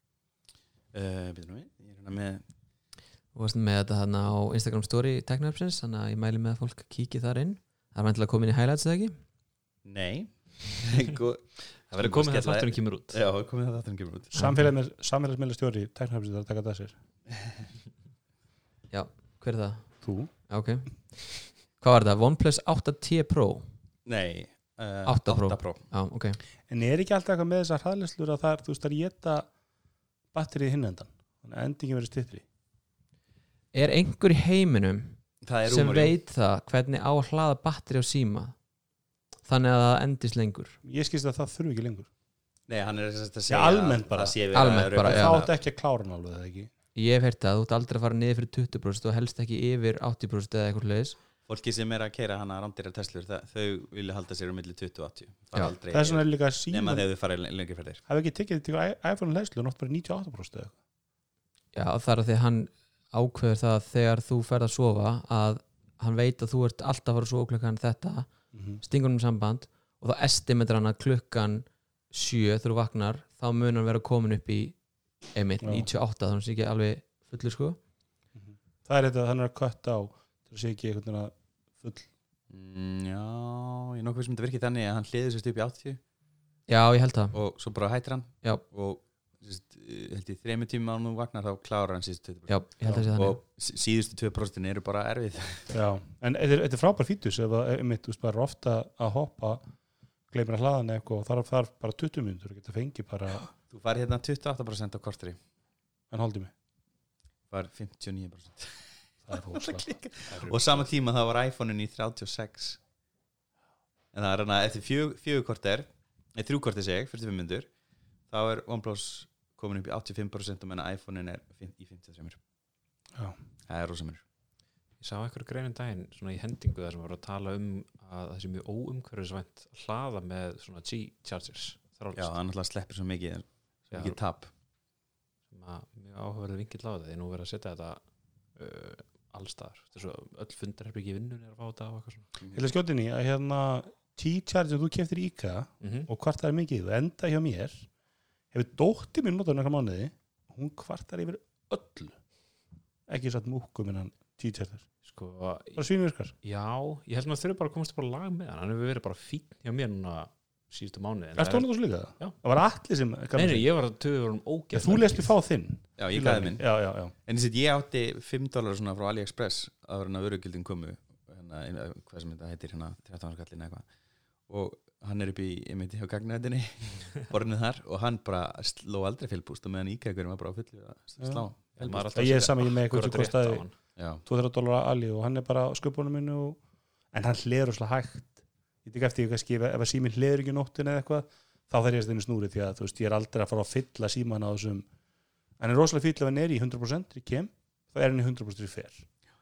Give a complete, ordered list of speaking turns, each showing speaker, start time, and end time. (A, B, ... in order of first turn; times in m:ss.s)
0:00.9-0:02.4 A
0:03.3-0:09.2 B
0:09.8-0:14.3 A
0:11.9-0:13.2 C
0:14.3-0:17.0 D
0:14.4-0:14.7 B
0:18.9-0:19.8 B
0:20.0-0:20.3 D
0:20.5-0:23.7 B
0:24.1-0:25.8 A
0:25.1-0:26.4 B
0:26.7-0:29.5 D
0:30.3-0:32.4 D
0:33.7-0:38.6 B
0:35.4-0:36.1 A
0:39.4-0:40.8 B
0:40.8-0:42.1 D
0:42.7-0:45.5 A
0:43.5-0:46.7 D
0:44.5-0:45.4 B
0:47.0-0:51.2 B
0:51.5-0:58.0 A
0:55.9-0:57.1 D
0:58.1-1:00.8 D
1:01.7-1:08.3 B
1:08.5-1:08.8 D
1:08.8-1:14.8 B
1:15.4-1:17.8 B
1:15.6-1:15.9 D
1:18.4-1:22.1 D
1:22.5-1:26.0 A
1:26.7-1:27.4 B
1:27.3-1:35.8 A
1:32.5-1:33.4 B
1:35.7-1:39.6 D
1:40.3-1:43.4 D
1:43.4-1:45.4 A
1:46.1-1:46.5 D
1:47.5-1:52.8 A
1:49.3-1:49.9 D
1:50.3-1:50.9 C
1:54.1-1:57.7 A
1:58.3-2:02.4 A
2:03.7-2:04.2 A
2:05.0-2:12.4 C
2:12.2-2:14.5 A
2:13.9-2:14.2 C
2:15.5-2:18.0 C
2:18.6-2:22.3 C
2:22.5-2:27.9 D
2:25.8-2:26.1 C
2:28.5-2:32.2 D
2:33.1-2:34.9 D
2:35.0-2:35.8 C
2:35.8-2:36.3 D
2:36.4-2:42.4 C
2:41.4-2:43.7 D
2:43.3-2:45.3 C
2:44.7-2:47.1 D
2:46.0-2:46.6 A
2:47.3-2:53.8 A
2:54.5-3:02.4 A
3:01.2-3:01.5 D
3:01.8-3:03.7 C
3:02.1-3:03.6 D
3:04.0-3:04.2 A
3:04.2-3:06.6 D
3:07.1-3:14.8 D
3:15.6-3:19.0 D